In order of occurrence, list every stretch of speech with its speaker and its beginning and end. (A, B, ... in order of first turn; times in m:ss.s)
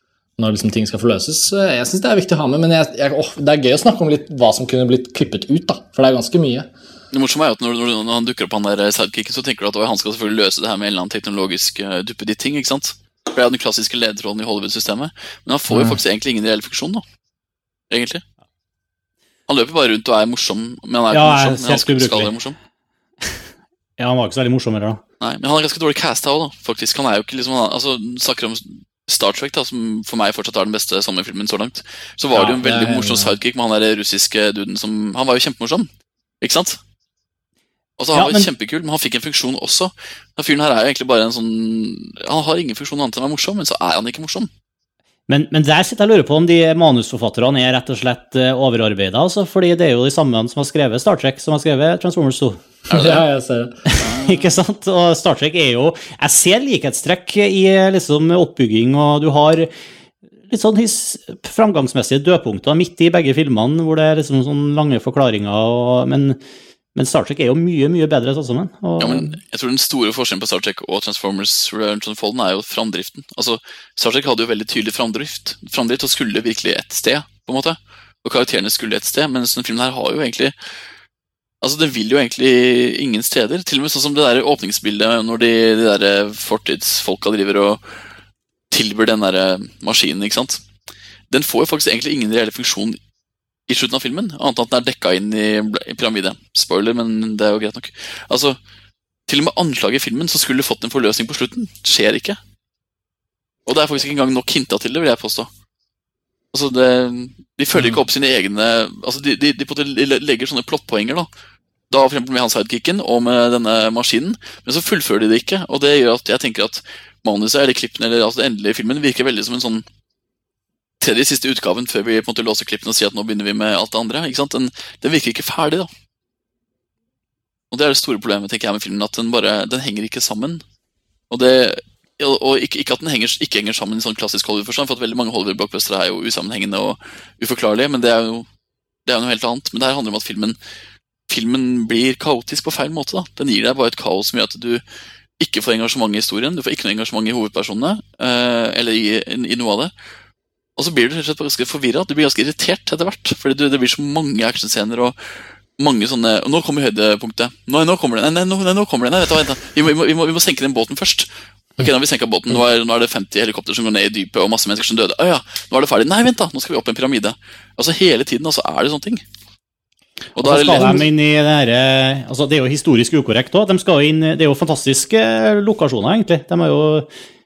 0:00.4-0:06.7 A
0:07.1-0:17.0 B
0:15.7-0:16.0 A
0:17.9-0:18.2 B
0:19.5-0:22.6 B
0:21.1-0:22.3 C
0:24.0-0:25.0 C
0:25.2-0:35.9 B
0:32.3-0:33.4 A
0:36.4-0:36.8 B
0:38.0-0:44.5 B
0:38.1-0:38.5 C
0:45.3-0:52.6 C
0:52.9-0:53.9 A
0:52.9-0:53.2 B
0:54.0-0:54.5 B
0:54.0-0:59.7 C
1:00.5-1:06.4 C
1:06.9-1:09.4 C
1:09.0-1:20.5 B
1:21.6-1:27.8 B
1:28.7-1:30.6 B
1:31.3-1:33.0 B
1:33.7-1:38.6 B
1:39.3-1:42.4 B
1:43.7-1:45.5 B
1:46.5-1:51.3 B
1:47.8-1:48.0 A
1:51.9-1:59.9 B
2:01.0-2:05.9 B
2:07.7-2:10.6 B
2:11.3-2:18.5 B
2:19.0-2:20.6 B
2:21.3-2:24.8 B
2:25.4-2:29.9 B
2:30.8-2:35.2 B
2:35.8-2:41.3 B
2:41.8-2:49.2 B
2:50.4-2:51.0 B
2:50.4-2:57.1 C
2:50.7-2:51.0 A